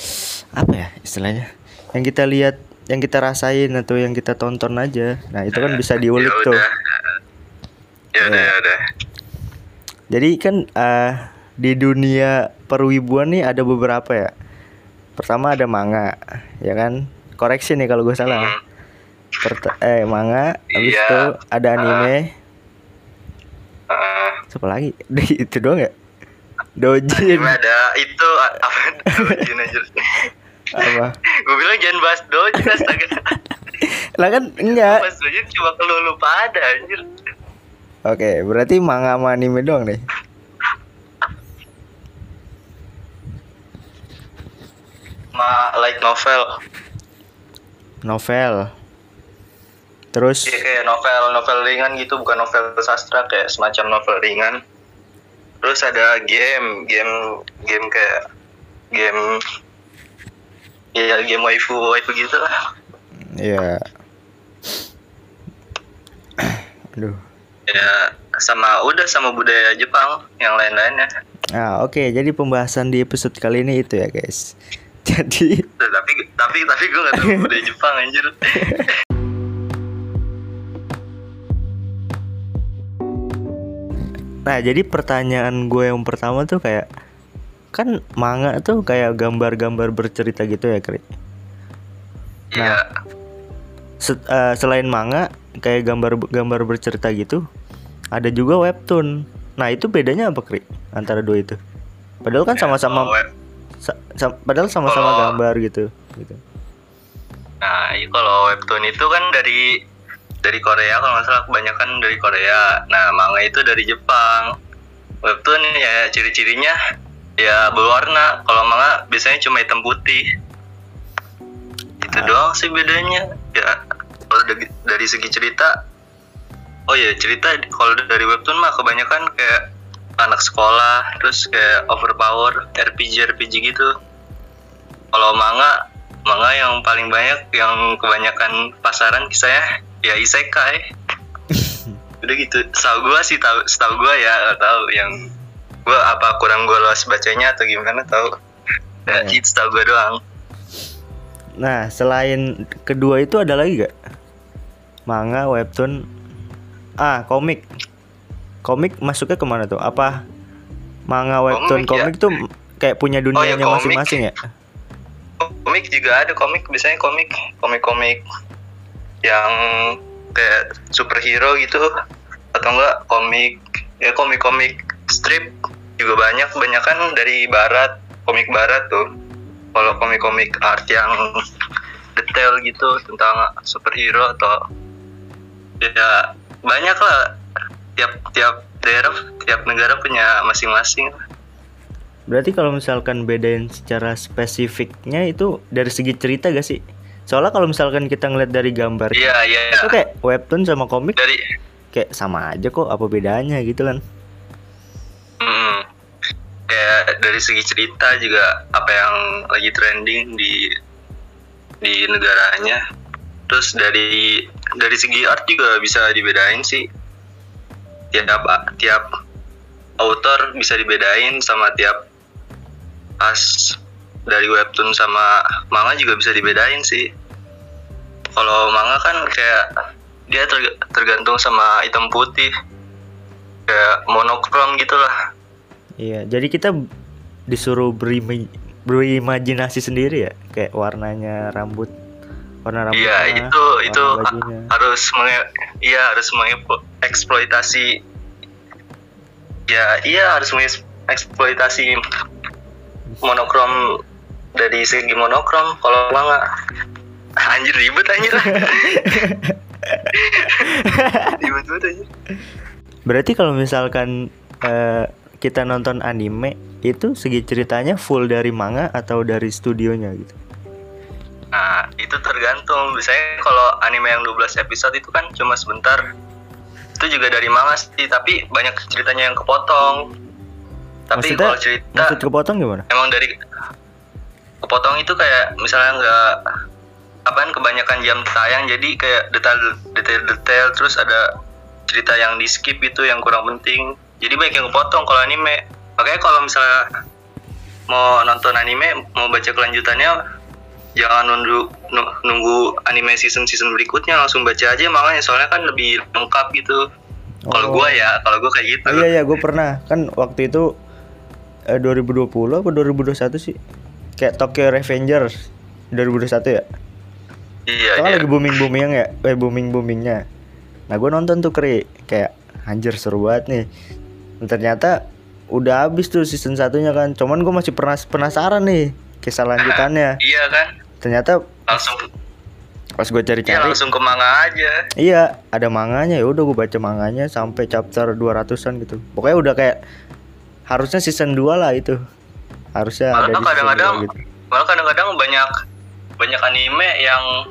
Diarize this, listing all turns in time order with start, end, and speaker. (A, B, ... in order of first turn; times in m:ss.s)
0:00.2-0:06.6 A
0:05.6-0:07.2 B
0:08.2-0:08.8 B
0:08.2-0:08.5 A
0:10.1-0:14.3 A
0:15.2-0:16.1 A
0:16.6-0:18.5 A
0:18.2-0:18.6 B
0:19.4-0:22.3 A
0:20.8-0:22.1 B
0:23.9-0:24.4 B
0:24.5-0:25.9 A
0:26.8-0:27.6 A
0:27.1-0:29.9 B
0:29.1-0:29.4 A
0:30.7-0:31.1 A
0:30.8-0:33.3 B
0:32.6-0:33.0 A
0:33.8-0:35.0 A
0:34.7-0:37.0 B
0:38.1-0:40.0 A
0:45.4-0:46.5 B
0:48.1-0:48.6 A
0:50.1-0:50.6 A
0:50.5-0:54.6 B
0:55.6-0:58.2 B
0:58.9-0:59.4 B
1:01.0-1:02.5 B
1:03.4-1:03.8 A
1:06.4-1:07.2 A
1:07.7-1:11.1 B
1:11.6-1:14.4 A
1:15.1-1:15.7 A
1:15.8-1:18.9 B
1:17.2-1:17.5 A
1:18.6-1:18.9 A
1:24.5-1:26.9 A
1:27.7-1:31.0 A
1:32.5-1:32.8 B
1:34.0-1:37.4 A
1:38.2-1:41.6 A
1:42.2-1:43.1 A
1:42.5-1:43.3 B
1:43.8-1:46.4 A
1:44.9-1:45.4 B
1:47.6-1:49.7 B
1:50.4-1:54.5 B
1:55.2-1:56.8 B
1:57.4-2:00.2 B
2:02.0-2:03.8 B
2:02.1-2:02.4 A
2:04.3-2:05.7 B
2:06.9-2:13.9 B
2:15.1-2:15.8 B
2:16.3-2:20.8 B
2:21.5-2:21.8 A
2:22.2-2:25.3 B
2:25.9-2:28.3 B
2:29.1-2:29.4 A
2:29.1-2:30.2 B
2:31.6-2:33.9 A
2:35.1-2:36.0 A
2:37.0-2:37.6 A
2:38.6-2:40.2 A
2:41.1-2:44.4 A
2:41.5-2:42.1 B
2:43.4-2:44.2 B
2:45.4-2:48.2 B
2:49.2-2:51.9 B
2:52.5-2:59.1 B
2:59.7-3:01.4 B
3:02.2-3:04.6 B
3:05.8-3:07.3 B
3:08.0-3:11.2 B
3:12.3-3:21.2 A
3:19.2-3:19.9 B
3:21.2-3:21.4 B
3:21.9-3:24.0 A
3:25.4-3:25.8 B
3:26.7-3:30.7 B
3:31.8-3:32.8 B
3:33.5-3:36.9 B
3:38.1-3:39.1 B
3:40.0-3:42.0 B
3:43.2-3:47.1 B
3:48.4-3:49.7 B
3:50.3-3:52.5 B
3:53.7-3:55.1 B
3:56.0-3:56.7 A
3:57.5-4:01.9 A
4:02.7-4:04.7 A
4:02.9-4:08.0 B
4:09.7-4:12.0 B
4:13.2-4:13.8 B
4:14.6-4:16.4 B
4:17.4-4:19.3 B
4:18.3-4:20.1 A
4:20.1-4:22.1 B
4:20.6-4:21.4 A
4:23.1-4:24.1 A
4:24.6-4:30.4 A
4:31.5-4:36.0 B
4:37.0-4:40.0 B
4:41.1-4:42.2 B
4:41.2-4:42.9 A
4:42.9-4:43.4 B
4:44.6-4:46.4 B
4:47.3-4:51.3 B
4:51.9-4:56.8 B
4:57.9-5:00.2 B
5:01.0-5:06.8 B
5:07.5-5:08.0 A
5:07.5-5:09.1 B
5:08.9-5:10.6 A
5:11.7-5:13.5 A
5:14.2-5:15.3 A
5:15.9-5:16.6 A
5:17.7-5:18.6 B
5:18.0-5:20.2 A
5:20.9-5:23.6 A
5:24.4-5:25.0 A
5:25.5-5:30.2 A
5:29.6-5:30.7 B
5:31.0-5:31.4 A
5:31.7-5:32.0 B
5:33.0-5:33.8 A
5:33.5-5:34.8 B
5:35.0-5:39.8 A
5:40.7-5:42.0 A
5:42.8-5:44.2 A
5:43.2-5:45.5 B
5:46.2-5:47.3 B